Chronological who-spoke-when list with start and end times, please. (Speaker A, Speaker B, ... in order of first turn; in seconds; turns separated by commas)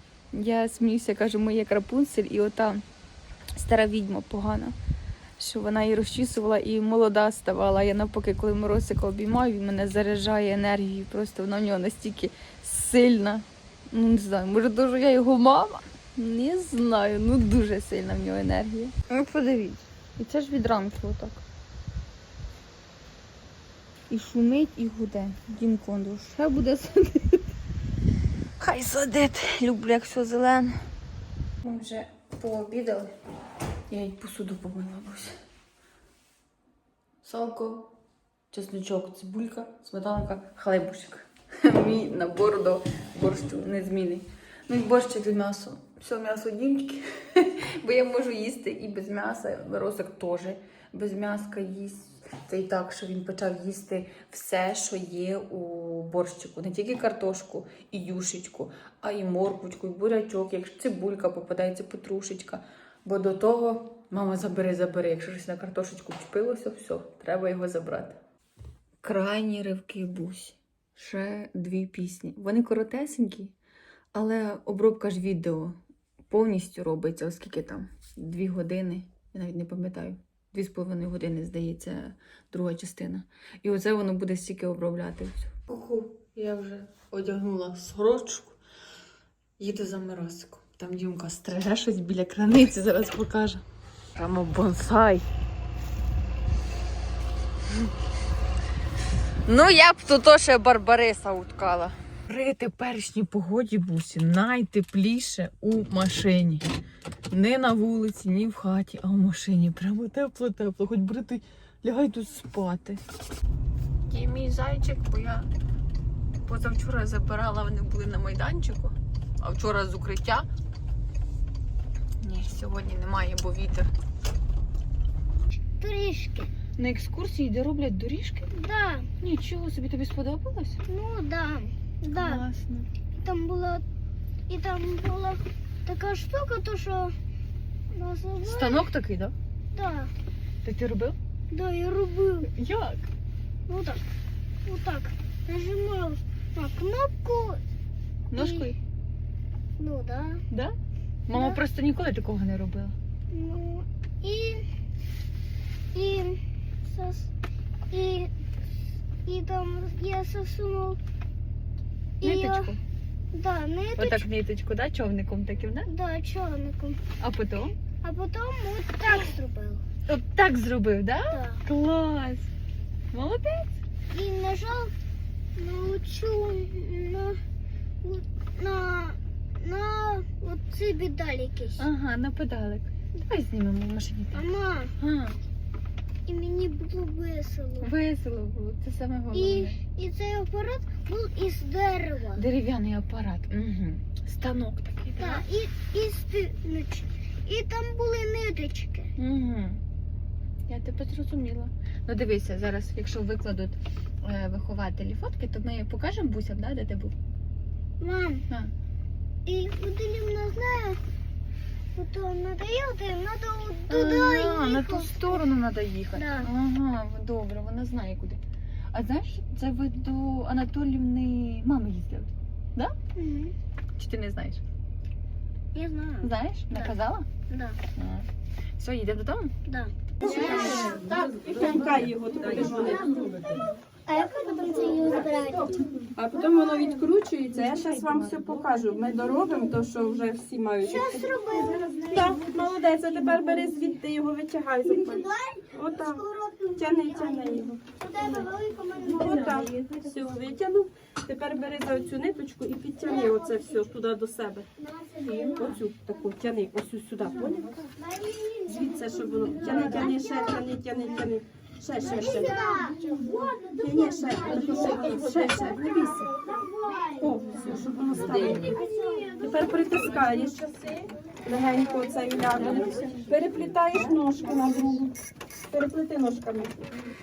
Speaker A: 0.3-2.8, Speaker A: 3.6-4.8, Speaker A: 5.4-21.4, Speaker A: 24.1-27.4, Speaker A: 28.6-30.8, Speaker A: 31.6-33.1, Speaker A: 33.9-35.4, Speaker A: 37.2-37.9, Speaker A: 38.5-68.2, Speaker A: 69.0-73.5, Speaker A: 74.1-75.8, Speaker A: 76.3-88.6, Speaker A: 89.6-93.6, Speaker A: 94.2-95.3, Speaker A: 99.5-106.6, Speaker A: 107.3-113.0, Speaker A: 114.1-115.5, Speaker A: 116.4-120.5, Speaker A: 122.2-123.9, Speaker B: 125.8-126.5, Speaker A: 126.8-128.5, Speaker B: 128.5-129.1, Speaker A: 129.2-130.8, Speaker B: 130.9-132.4, Speaker A: 132.1-132.9, Speaker B: 133.2-133.8, Speaker B: 134.5-137.2, Speaker B: 137.9-138.9, Speaker A: 138.4-139.3, Speaker B: 139.7-140.1, Speaker A: 140.6-141.2, Speaker B: 141.5-142.5, Speaker A: 142.6-143.0, Speaker B: 143.7-144.0, Speaker B: 144.7-147.6, Speaker A: 148.3-148.8, Speaker B: 148.4-148.7, Speaker B: 149.8-150.4, Speaker A: 151.3-152.9, Speaker B: 151.3-151.6, Speaker B: 153.3-154.7, Speaker B: 155.9-157.3, Speaker B: 157.9-158.3, Speaker B: 159.2-161.0, Speaker B: 162.2-162.7, Speaker A: 162.2-162.8, Speaker B: 163.3-164.3, Speaker A: 164.0-165.9, Speaker B: 165.9-167.0, Speaker A: 167.2-167.8, Speaker B: 168.0-169.8, Speaker A: 170.1-172.5, Speaker B: 171.3-171.6, Speaker A: 173.1-173.8, Speaker B: 174.1-174.9, Speaker B: 175.6-177.4, Speaker B: 178.0-181.8, Speaker A: 181.8-184.5, Speaker B: 184.3-184.9, Speaker A: 185.0-185.4, Speaker B: 186.3-187.9, Speaker A: 187.8-189.8, Speaker B: 189.3-192.4, Speaker A: 192.3-195.4, Speaker B: 195.2-199.1, Speaker A: 199.2-199.8, Speaker A: 200.7-207.2, Speaker B: 208.0-208.4, Speaker B: 209.5-211.0, Speaker B: 211.9-215.2, Speaker A: 213.9-218.4, Speaker B: 216.2-216.5, Speaker A: 218.9-222.9, Speaker B: 223.2-223.6, Speaker A: 224.0-224.6, Speaker B: 225.7-226.9, Speaker A: 226.2-227.3, Speaker B: 227.5-227.8, Speaker A: 228.0-228.3, Speaker A: 228.8-229.5, Speaker B: 229.7-231.0, Speaker A: 230.2-230.9, Speaker C: 230.3-233.6, Speaker B: 234.1-235.8, Speaker C: 236.2-241.3, Speaker B: 240.8-242.2, Speaker C: 242.0-246.2, Speaker B: 244.9-249.7, Speaker C: 246.8-248.5, Speaker C: 249.1-254.7, Speaker B: 254.8-255.8, Speaker C: 255.2-257.7, Speaker B: 258.0-260.6, Speaker C: 258.7-262.5, Speaker B: 262.0-265.1, Speaker C: 263.7-266.3, Speaker B: 266.4-267.3, Speaker C: 267.2-268.8, Speaker B: 268.6-269.4, Speaker C: 269.4-275.1, Speaker C: 275.7-276.8